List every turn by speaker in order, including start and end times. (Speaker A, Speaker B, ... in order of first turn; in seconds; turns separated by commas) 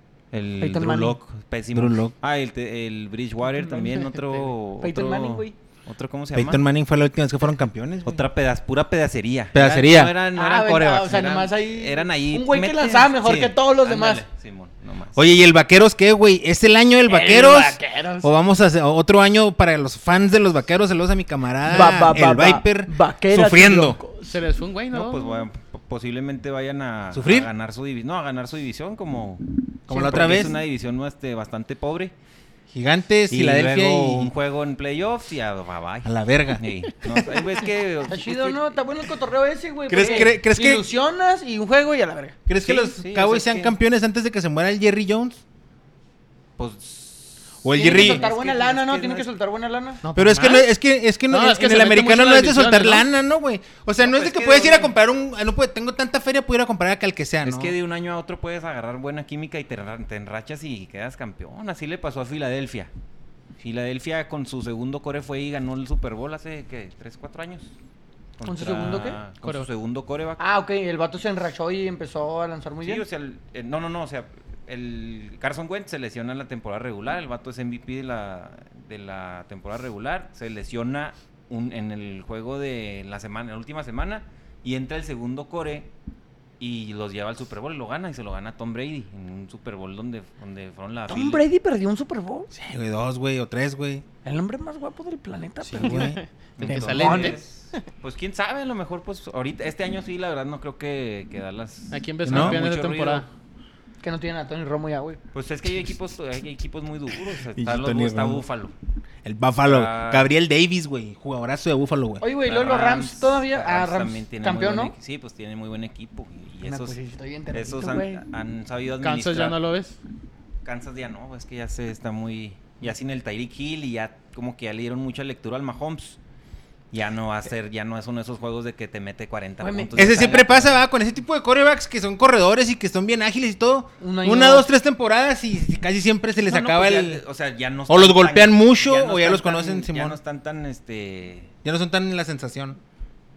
Speaker A: 0.3-6.6, Speaker B: 0.6-1.2, Speaker C: 1.7-2.1, Speaker D: 3.5-4.5, Speaker B: 4.8-5.5, Speaker C: 6.3-8.2, Speaker A: 8.0-15.2, Speaker C: 9.5-10.2, Speaker B: 10.3-14.2, Speaker C: 15.1-24.0, Speaker B: 17.1-18.3, Speaker B: 21.7-24.4, Speaker D: 24.2-25.5, Speaker A: 24.9-32.1, Speaker C: 27.1-27.5, Speaker C: 29.9-30.6, Speaker C: 32.7-34.3, Speaker A: 33.3-38.7, Speaker C: 36.0-36.6, Speaker B: 38.0-42.4, Speaker C: 39.9-40.8, Speaker A: 40.0-40.3, Speaker C: 42.5-45.4, Speaker A: 42.6-43.8, Speaker A: 46.6-49.3, Speaker C: 47.6-48.3, Speaker B: 47.7-50.0, Speaker D: 50.0-50.7, Speaker C: 50.1-57.8, Speaker D: 51.3-53.1, Speaker A: 54.0-54.9, Speaker A: 57.4-62.9, Speaker A: 63.6-67.7, Speaker A: 68.4-70.4, Speaker B: 68.4-69.2, Speaker D: 69.4-69.7, Speaker B: 70.4-73.0, Speaker A: 72.8-85.9, Speaker A: 86.6-91.5, Speaker B: 91.1-92.5, Speaker C: 92.5-94.0, Speaker B: 94.2-97.4, Speaker C: 95.6-97.1, Speaker D: 95.8-97.9, Speaker A: 96.6-103.3, Speaker D: 101.9-103.3, Speaker C: 102.2-102.6, Speaker B: 104.0-105.2, Speaker A: 105.3-108.7, Speaker C: 107.5-108.4, Speaker C: 109.2-112.2, Speaker A: 109.6-110.3, Speaker B: 112.2-114.9, Speaker A: 112.4-117.0, Speaker B: 116.6-118.2, Speaker A: 117.5-119.6, Speaker D: 119.0-120.0, Speaker A: 120.6-126.2, Speaker A: 126.9-130.8, Speaker B: 129.6-130.5, Speaker C: 129.9-137.2, Speaker B: 134.0-134.7, Speaker A: 136.4-141.5, Speaker C: 137.9-140.2, Speaker C: 141.6-142.8